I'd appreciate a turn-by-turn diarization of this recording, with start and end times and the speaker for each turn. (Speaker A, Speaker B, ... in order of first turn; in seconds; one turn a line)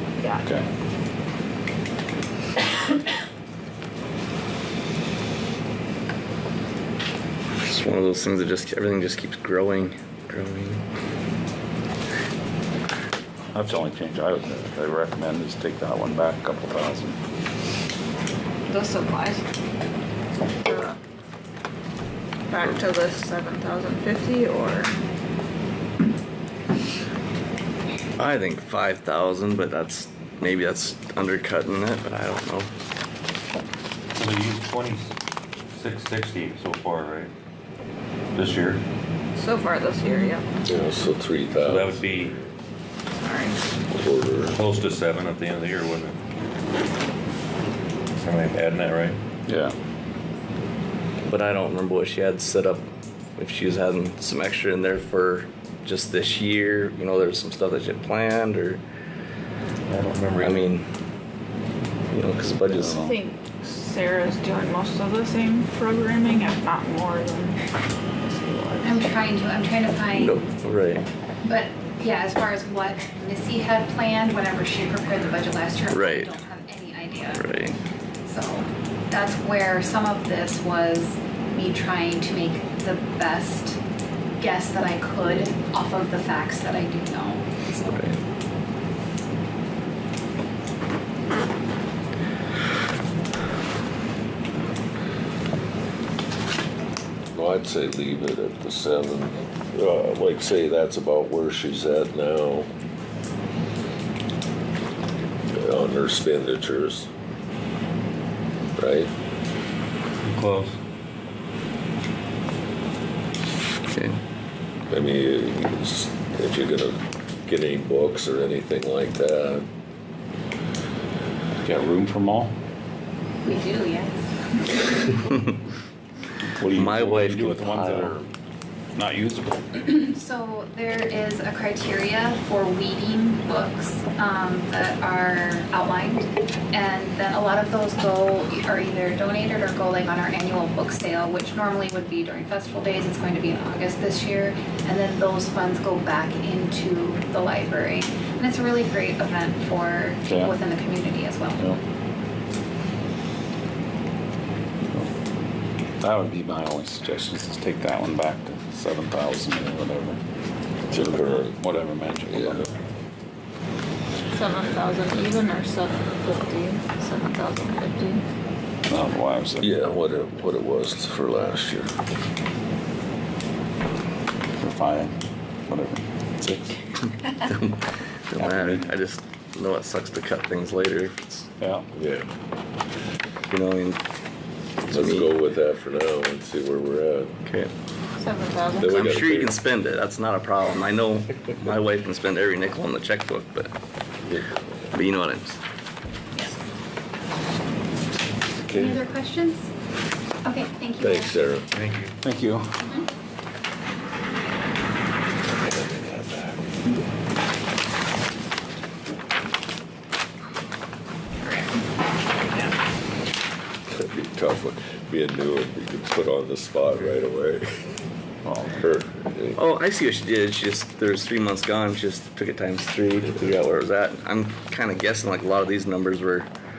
Speaker A: 0.2-0.4
Speaker B: 0.4-0.7
Speaker C: 7.7-10.8
Speaker B: 13.5-17.2
Speaker A: 18.7-19.4
Speaker A: 20.6-21.0
Speaker A: 22.5-24.9
Speaker C: 28.2-32.7
Speaker D: 34.1-35.1
Speaker D: 35.7-37.3
Speaker D: 38.3-38.8
Speaker A: 39.4-40.5
Speaker E: 40.6-42.0
Speaker D: 41.6-42.4
Speaker A: 43.2-43.6
Speaker E: 43.9-44.5
Speaker D: 44.4-46.1
Speaker D: 48.2-49.2
Speaker B: 49.5-49.7
Speaker C: 51.3-58.8
Speaker D: 59.9-60.6
Speaker C: 60.4-60.9
Speaker C: 62.1-63.0
Speaker B: 62.8-63.1
Speaker A: 62.9-67.6
Speaker A: 68.2-69.0
Speaker F: 68.8-70.4
Speaker C: 70.1-71.0
Speaker F: 71.4-77.5
Speaker C: 75.9-76.3
Speaker C: 77.3-77.8
Speaker F: 78.2-83.8
Speaker F: 84.4-87.7
Speaker C: 87.7-88.2
Speaker E: 97.3-102.7
Speaker E: 105.5-107.1
Speaker E: 108.8-109.1
Speaker D: 110.3-110.7
Speaker C: 113.9-114.2
Speaker E: 114.9-119.6
Speaker B: 121.6-122.5
Speaker F: 123.4-124.9
Speaker B: 126.4-128.2
Speaker C: 126.7-128.2
Speaker B: 128.9-129.7
Speaker F: 129.8-151.7
Speaker B: 150.3-150.5
Speaker B: 156.0-160.2
Speaker E: 160.9-161.6
Speaker B: 161.0-162.7
Speaker E: 162.3-162.6
Speaker A: 164.3-168.2
Speaker B: 168.9-169.7
Speaker E: 169.6-171.9
Speaker B: 174.6-175.1
Speaker B: 175.7-176.0
Speaker C: 176.4-176.7
Speaker C: 177.2-181.5
Speaker B: 178.4-178.8
Speaker B: 181.6-181.9
Speaker E: 181.9-182.3
Speaker C: 183.5-184.0
Speaker C: 184.8-185.3
Speaker E: 184.9-187.3
Speaker C: 187.4-187.7
Speaker A: 188.2-189.1
Speaker E: 188.8-189.6
Speaker C: 188.8-193.7
Speaker E: 194.3-194.6
Speaker C: 194.9-195.6
Speaker E: 198.6-199.0
Speaker F: 198.7-199.7
Speaker F: 200.4-201.4
Speaker E: 201.0-201.7
Speaker C: 201.7-202.1
Speaker B: 202.2-202.7
Speaker E: 205.5-206.6
Speaker E: 213.9-217.9
Speaker B: 218.4-218.9
Speaker E: 218.8-219.6
Speaker C: 219.6-226.5